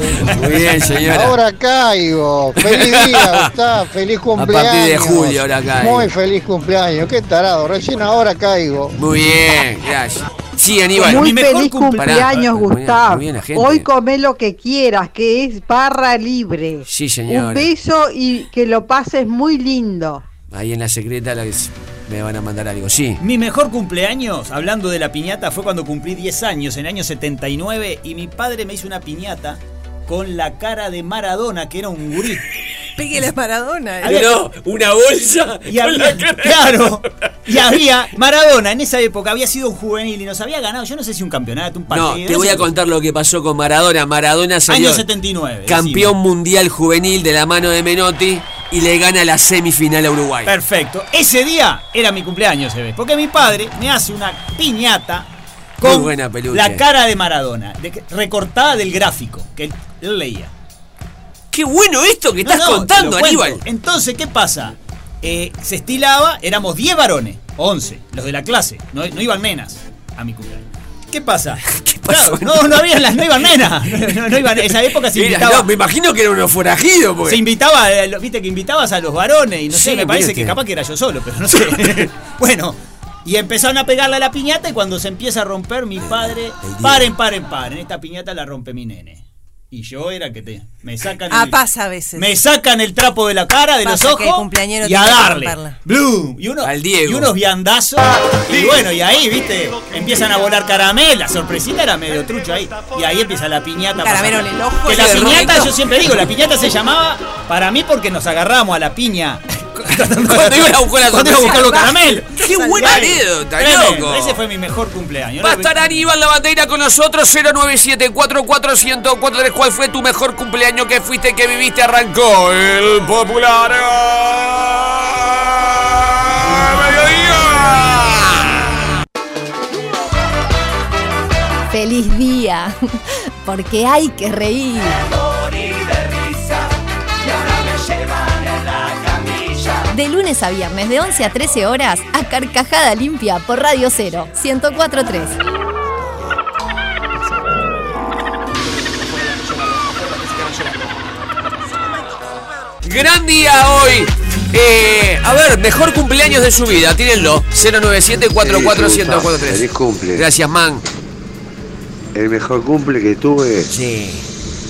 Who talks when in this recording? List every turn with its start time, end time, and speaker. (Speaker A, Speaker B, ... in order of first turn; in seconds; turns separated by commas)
Speaker A: 0.2-1.4, Speaker B: 1.1-8.9, Speaker A: 2.6-3.5, Speaker A: 4.3-6.1, Speaker A: 9.0-11.4, Speaker C: 11.0-12.5, Speaker D: 11.0-20.3, Speaker A: 11.9-13.9, Speaker A: 16.9-17.7, Speaker A: 20.5-23.2, Speaker C: 23.2-32.5, Speaker E: 33.0-34.3, Speaker C: 34.0-34.4, Speaker A: 34.0-36.9, Speaker C: 35.7-42.7, Speaker A: 41.9-45.0, Speaker C: 44.7-46.1, Speaker A: 45.7-50.5, Speaker C: 50.5-55.3, Speaker C: 55.8-60.5, Speaker A: 55.8-56.8, Speaker A: 61.5-63.6, Speaker C: 62.4-75.7, Speaker A: 71.7-72.8, Speaker A: 75.1-77.4, Speaker C: 77.2-91.6, Speaker A: 79.7-80.5, Speaker A: 86.0-87.1, Speaker E: 91.3-92.3, Speaker C: 92.2-116.0, Speaker E: 93.8-95.8, Speaker A: 96.6-97.3, Speaker E: 104.0-105.9, Speaker A: 104.9-105.7, Speaker A: 110.2-111.9, Speaker E: 111.5-113.1, Speaker A: 112.4-114.4, Speaker A: 115.4-125.5, Speaker A: 126.2-128.7, Speaker F: 131.7-132.8, Speaker F: 133.4-135.0, Speaker F: 139.9-145.4, Speaker A: 152.8-160.8, Speaker G: 158.4-160.2, Speaker G: 162.1-163.7, Speaker A: 163.7-164.3